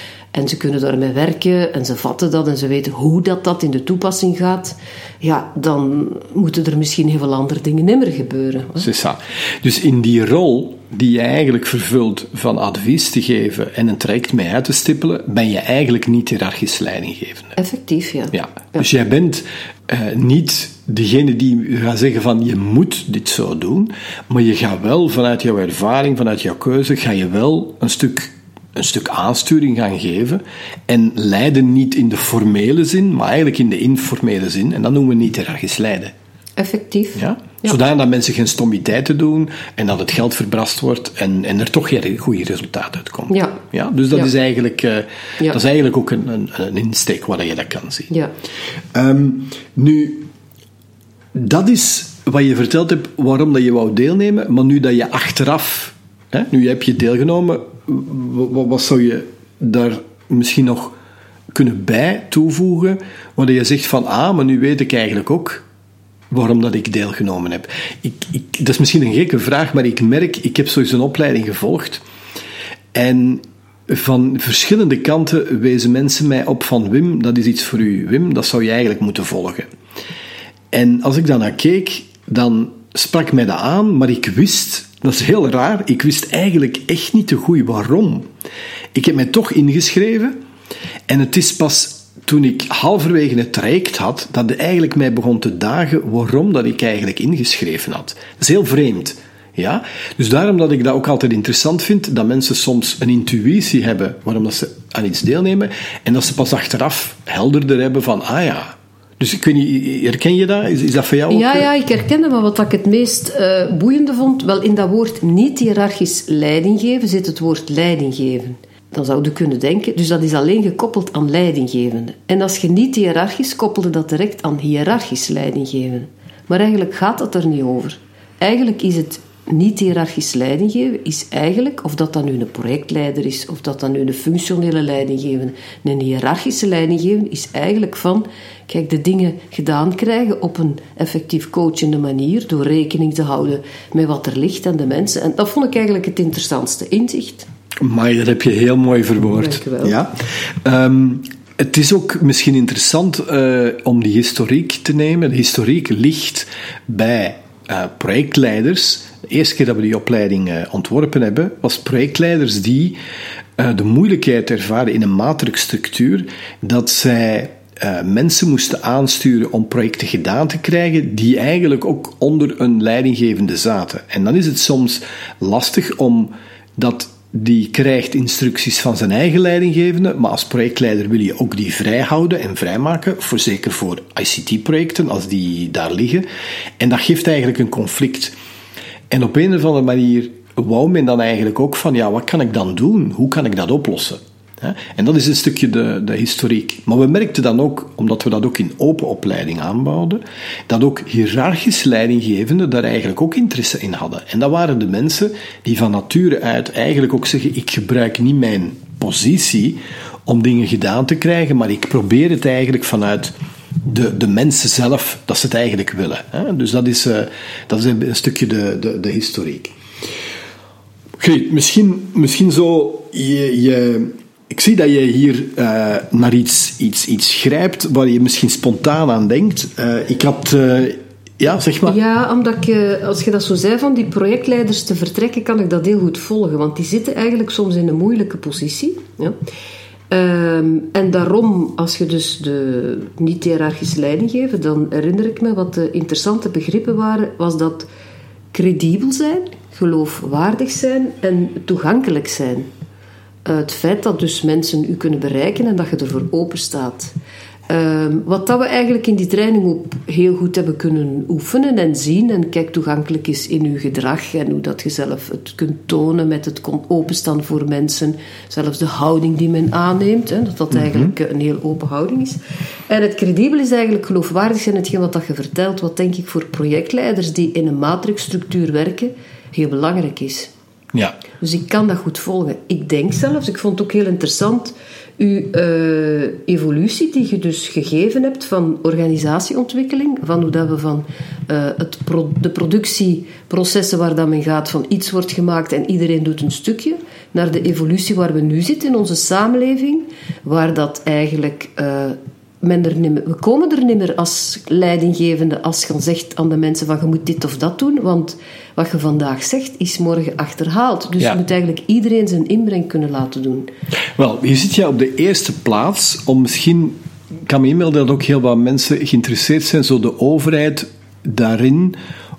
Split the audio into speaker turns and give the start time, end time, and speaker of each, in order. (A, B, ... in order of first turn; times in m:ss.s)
0:00.3-0:08.9 A
0:08.8-0:17.6 B
0:17.6-0:18.8 A
0:18.3-0:36.1 B
0:36.6-0:37.8 A
0:37.2-0:48.1 B
0:43.3-0:43.6 A
0:48.9-0:50.3 B
0:51.3-1:01.0 B
1:01.5-1:05.6 B
1:06.3-1:12.0 B
1:12.9-1:19.7 B
1:20.7-1:28.3 B
1:28.9-1:30.4 B
1:31.1-1:51.7 B
1:51.3-2:27.5 A
2:27.8-2:43.0 B
2:29.3-2:30.0 A
2:43.6-3:06.2 B
3:06.8-3:08.3 B
3:09.1-3:39.7 B
3:41.2-3:52.0 B
3:51.8-3:59.4 A
4:00.1-4:07.9 A
4:08.5-4:12.7 A
4:13.4-4:17.1 A
4:17.7-4:32.4 A
4:30.7-4:31.1 B
4:32.9-4:40.5 A
4:41.4-5:13.7 A
5:14.2-5:22.0 B